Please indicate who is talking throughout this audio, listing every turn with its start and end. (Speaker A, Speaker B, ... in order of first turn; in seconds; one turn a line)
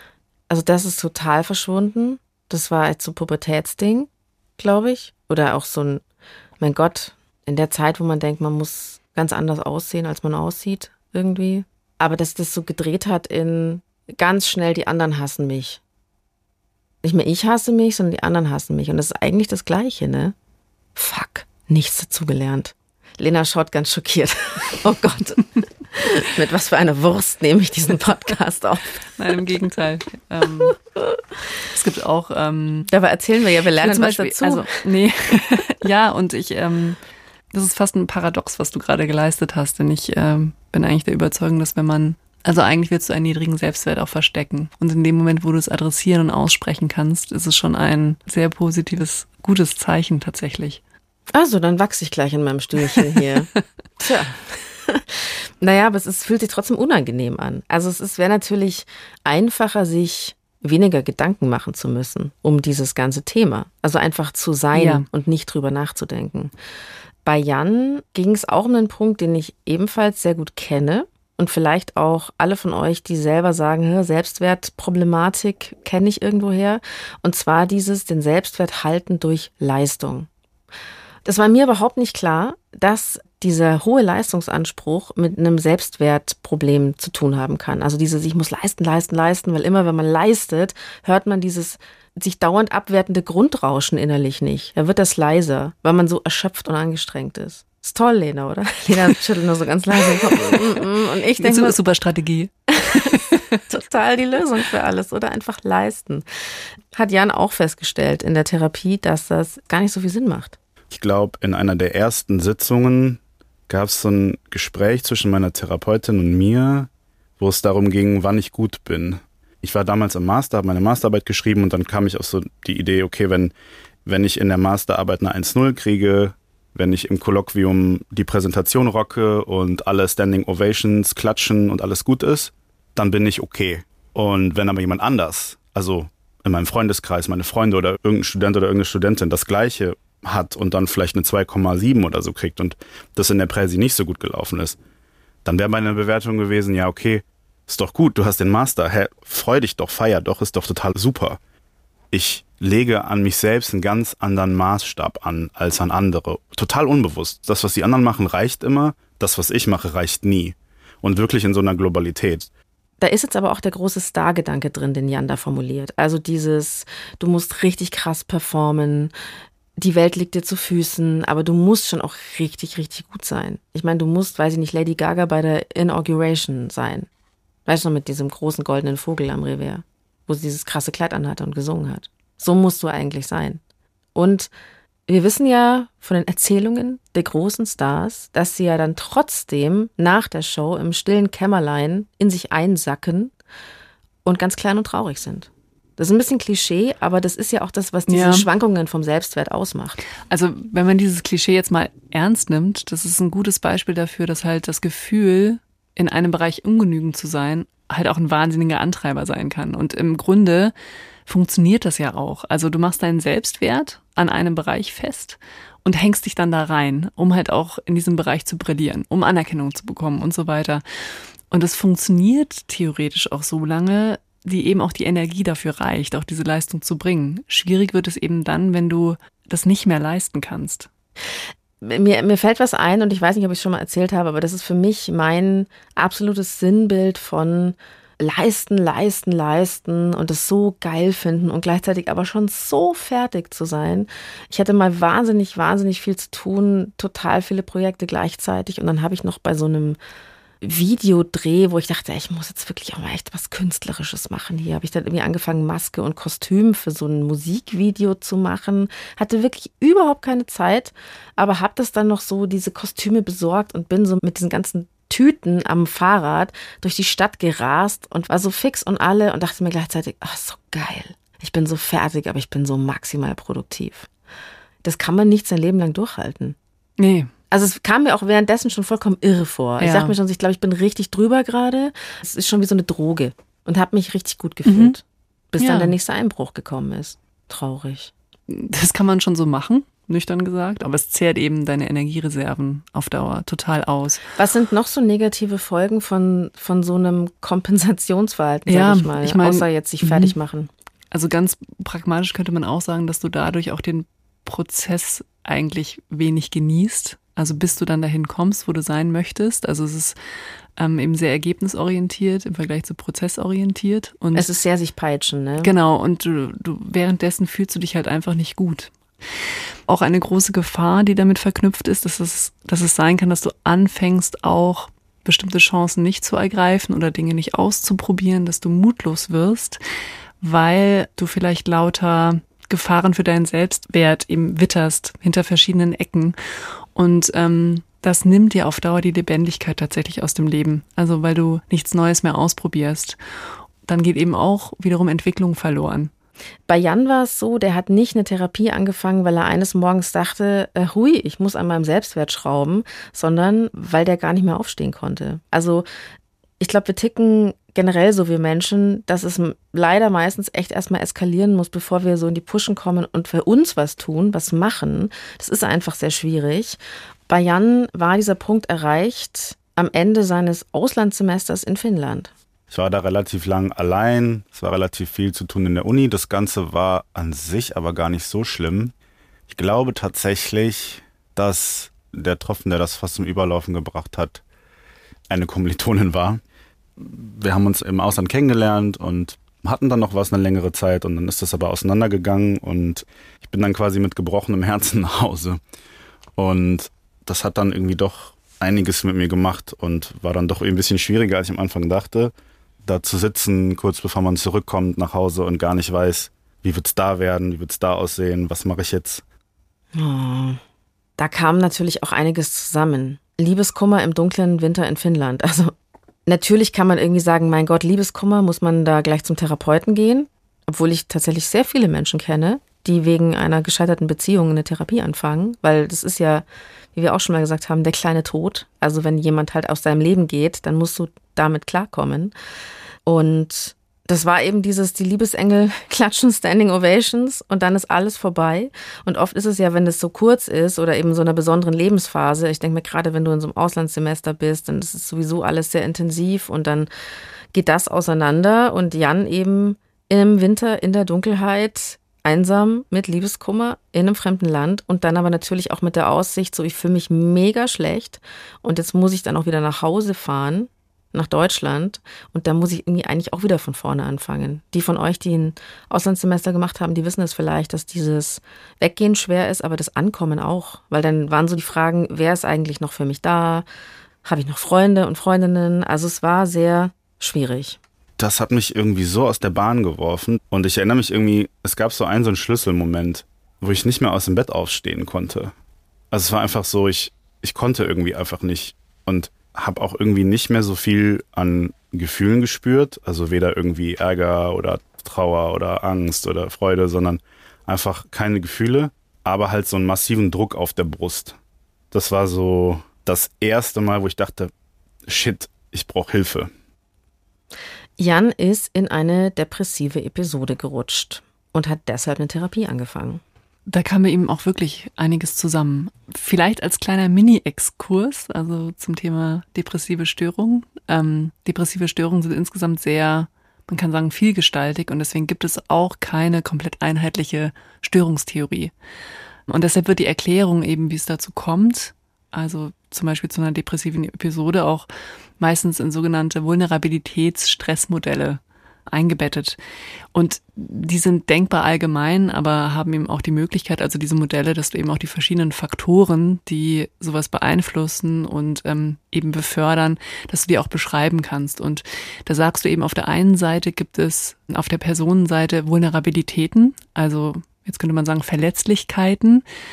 Speaker A: 0.5-6.0
Speaker A: 6.6-15.8
Speaker A: 17.0-20.4
Speaker A: 21.0-29.1
Speaker B: 29.2-30.8
Speaker B: 31.7-32.9
Speaker A: 32.9-34.8
Speaker B: 33.8-37.0
Speaker B: 37.5-50.8
Speaker A: 51.3-66.5
Speaker B: 64.7-65.1
Speaker A: 67.2-80.3
Speaker A: 81.2-101.8
Speaker B: 101.4-103.6
Speaker A: 102.7-106.2
Speaker A: 106.9-110.6
Speaker C: 110.9-123.5
Speaker C: 124.1-144.8
Speaker C: 145.4-151.4
Speaker C: 152.1-162.5
Speaker A: 163.0-169.1
Speaker A: 169.8-177.1
Speaker A: 177.7-183.6
Speaker A: 184.2-184.5
Speaker A: 185.1-193.3
Speaker A: 194.2-200.0
Speaker B: 198.1-198.5
Speaker B: 200.3-210.7
Speaker B: 211.3-220.8
Speaker B: 221.5-230.9
Speaker A: 231.8-250.0
Speaker A: 250.6-274.1
Speaker A: 274.8-276.6
Speaker B: 277.0-277.3
Speaker A: 277.5-288.1
Speaker B: 279.8-280.2
Speaker B: 284.7-285.0
Speaker B: 285.6-286.0
Speaker B: 288.5-294.2
Speaker A: 294.4-300.7
Speaker B: 298.7-300.4
Speaker B: 301.1-310.2
Speaker B: 310.8-314.5
Speaker A: 314.4-315.7
Speaker B: 315.6-318.9
Speaker B: 319.9-329.8
Speaker B: 330.4-336.4
Speaker B: 336.9-343.2
Speaker B: 343.8-346.1
Speaker A: 346.7-355.9
Speaker A: 356.6-366.8
Speaker A: 367.3-372.3
Speaker C: 372.7-378.9
Speaker C: 379.5-384.4
Speaker C: 385.3-386.4
Speaker C: 387.0-395.6
Speaker C: 396.4-402.3
Speaker C: 402.9-409.2
Speaker A: 409.9-410.6
Speaker A: 411.2-415.7
Speaker A: 416.3-426.4
Speaker A: 427.0-432.3
Speaker A: 433.1-446.9
Speaker A: 447.5-473.6
Speaker A: 474.2-477.8
Speaker C: 478.2-485.5
Speaker C: 486.1-501.4
Speaker C: 501.9-504.5
Speaker C: 505.1-506.5
Speaker A: 508.0-513.2
Speaker B: 513.7-528.7
Speaker B: 529.5-534.9
Speaker B: 535.4-539.6
Speaker B: 540.1-559.4